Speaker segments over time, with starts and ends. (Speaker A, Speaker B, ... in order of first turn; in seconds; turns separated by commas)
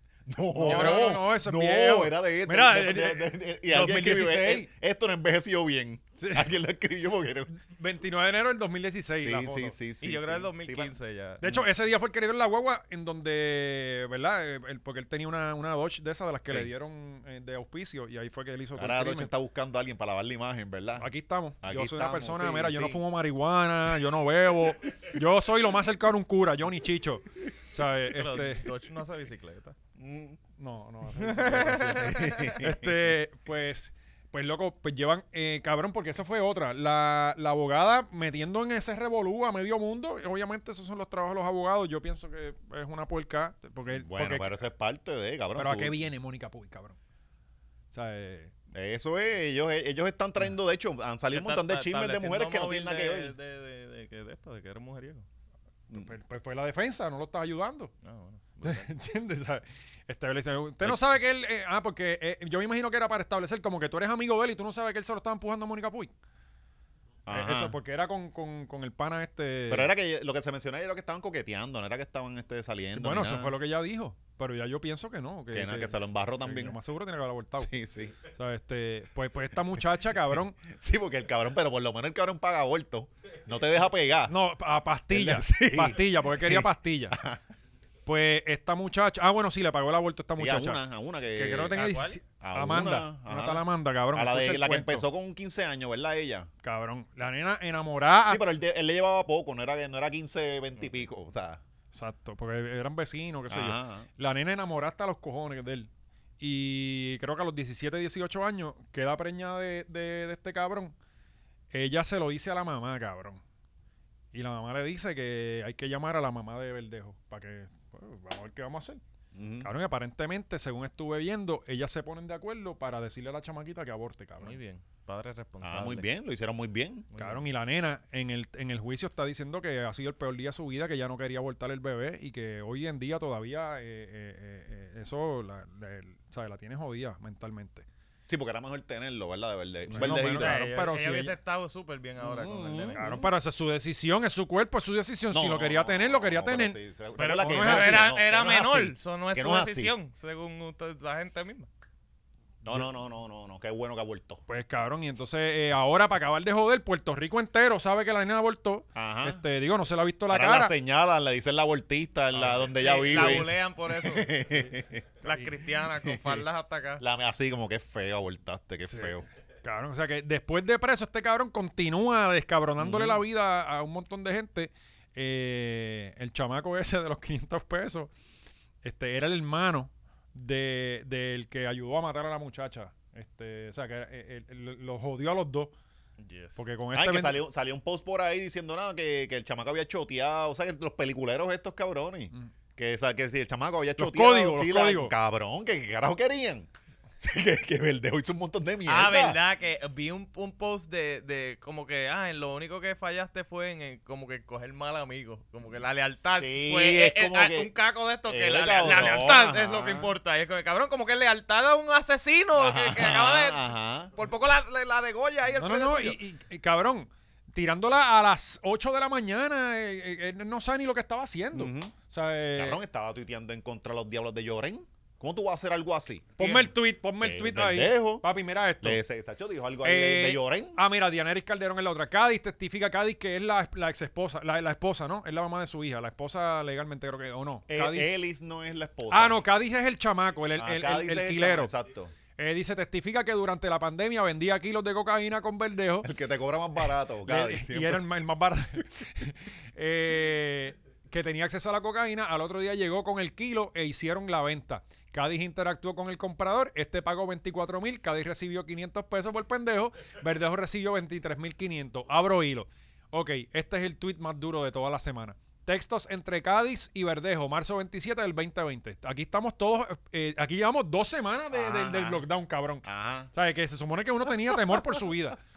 Speaker A: 0.3-7.5, Speaker B: 0.6-4.7, Speaker C: 0.6-1.2, Speaker B: 6.2-6.5, Speaker B: 7.5-9.8, Speaker A: 9.2-10.9, Speaker C: 10.0-11.5, Speaker B: 11.4-19.3, Speaker A: 16.5-16.7, Speaker A: 18.8-21.1, Speaker B: 21.0-28.7, Speaker A: 21.6-23.0, Speaker C: 28.1-29.8, Speaker A: 30.0-30.4, Speaker B: 30.6-44.5, Speaker C: 31.2-32.6, Speaker A: 31.6-33.1, Speaker A: 43.9-46.0, Speaker B: 45.5-47.0, Speaker B: 47.9-48.5, Speaker A: 48.7-53.4, Speaker C: 51.3-55.3, Speaker B: 55.9-57.9, Speaker C: 58.0-58.9, Speaker B: 58.6-66.1, Speaker A: 67.3-67.8, Speaker B: 67.3-69.9, Speaker A: 69.7-73.5, Speaker B: 72.9-77.7, Speaker A: 75.5-76.8, Speaker A: 77.6-78.2, Speaker B: 78.3-80.6, Speaker A: 80.6-84.3, Speaker B: 84.3-87.2, Speaker A: 85.1-87.4, Speaker B: 88.0-90.8, Speaker A: 90.4-91.8, Speaker B: 91.3-95.1, Speaker C: 91.7-92.2, Speaker A: 92.4-96.5, Speaker B: 96.6-98.4, Speaker A: 98.3-101.6, Speaker B: 101.9-105.9, Speaker A: 103.5-104.1, Speaker B: 106.4-111.0, Speaker B: 111.7-113.4, Speaker B: 114.3-119.0, Speaker A: 119.3-119.7, Speaker B: 119.6-124.6, Speaker C: 124.4-126.1, Speaker A: 125.6-127.1, Speaker C: 127.1-127.4, Speaker B: 127.2-137.9, Speaker A: 138.3-140.6, Speaker B: 139.9-141.3, Speaker C: 139.9-143.0, Speaker A: 142.2-143.3, Speaker B: 143.0-146.8, Speaker A: 145.3-149.9, Speaker C: 147.2-151.7, Speaker B: 147.4-148.1, Speaker A: 152.6-154.4, Speaker B: 154.5-160.7, Speaker A: 158.9-159.4, Speaker A: 160.3-165.1, Speaker B: 162.3-163.5, Speaker C: 162.7-164.4, Speaker C: 165.2-167.0, Speaker A: 166.0-166.4, Speaker A: 167.0-169.3, Speaker B: 168.9-178.1, Speaker A: 172.8-173.2, Speaker B: 178.8-185.7, Speaker C: 186.2-186.6, Speaker B: 186.6-187.4, Speaker A: 186.9-196.7, Speaker B: 194.0-195.1, Speaker A: 197.2-199.4, Speaker C: 198.9-213.6, Speaker A: 206.3-207.7, Speaker A: 208.3-210.1, Speaker A: 212.6-214.1, Speaker C: 214.2-216.2, Speaker B: 215.6-222.8, Speaker A: 221.5-221.9, Speaker A: 222.6-226.7, Speaker B: 226.4-229.0, Speaker A: 227.2-228.3, Speaker A: 228.8-230.8, Speaker B: 229.8-238.2, Speaker A: 237.7-239.4, Speaker B: 239.1-241.7, Speaker A: 240.6-242.1, Speaker B: 242.4-246.1, Speaker A: 246.0-248.0, Speaker B: 247.2-275.4, Speaker A: 271.5-272.2, Speaker A: 272.9-273.3